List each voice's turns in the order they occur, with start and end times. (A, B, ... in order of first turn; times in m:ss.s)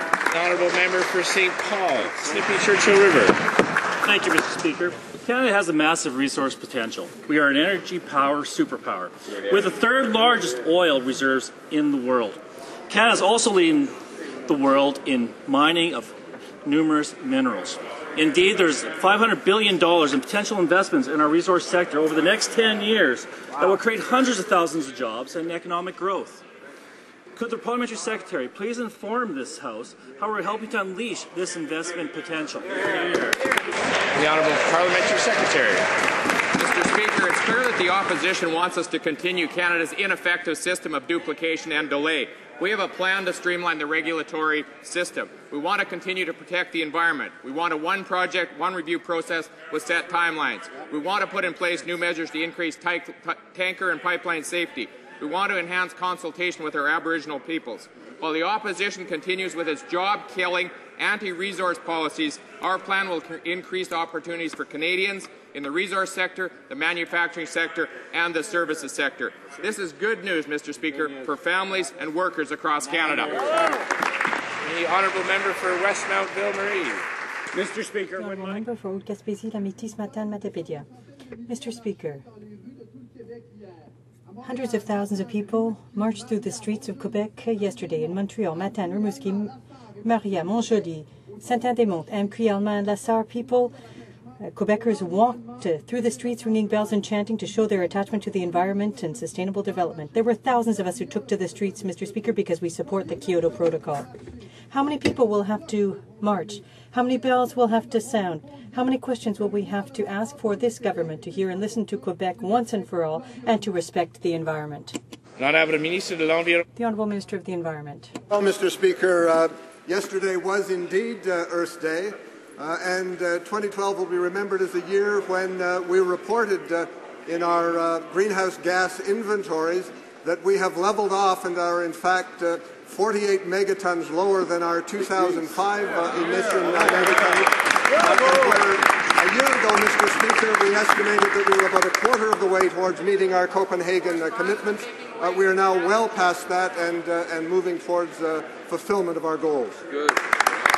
0:00.3-0:03.3 A
0:04.0-0:13.9 B
0:14.4-0:16.1 B
0:16.6-0:26.4 B
0:27.3-0:33.3 B
0:34.2-0:35.8 A
0:36.6-1:13.6 C
1:14.6-1:17.0 A
1:18.1-1:20.8 D
1:21.5-1:22.2 D
1:24.4-1:33.7 D
1:34.4-1:44.1 D
1:44.7-1:55.0 D
1:56.8-1:58.1 D
1:58.3-2:29.8 E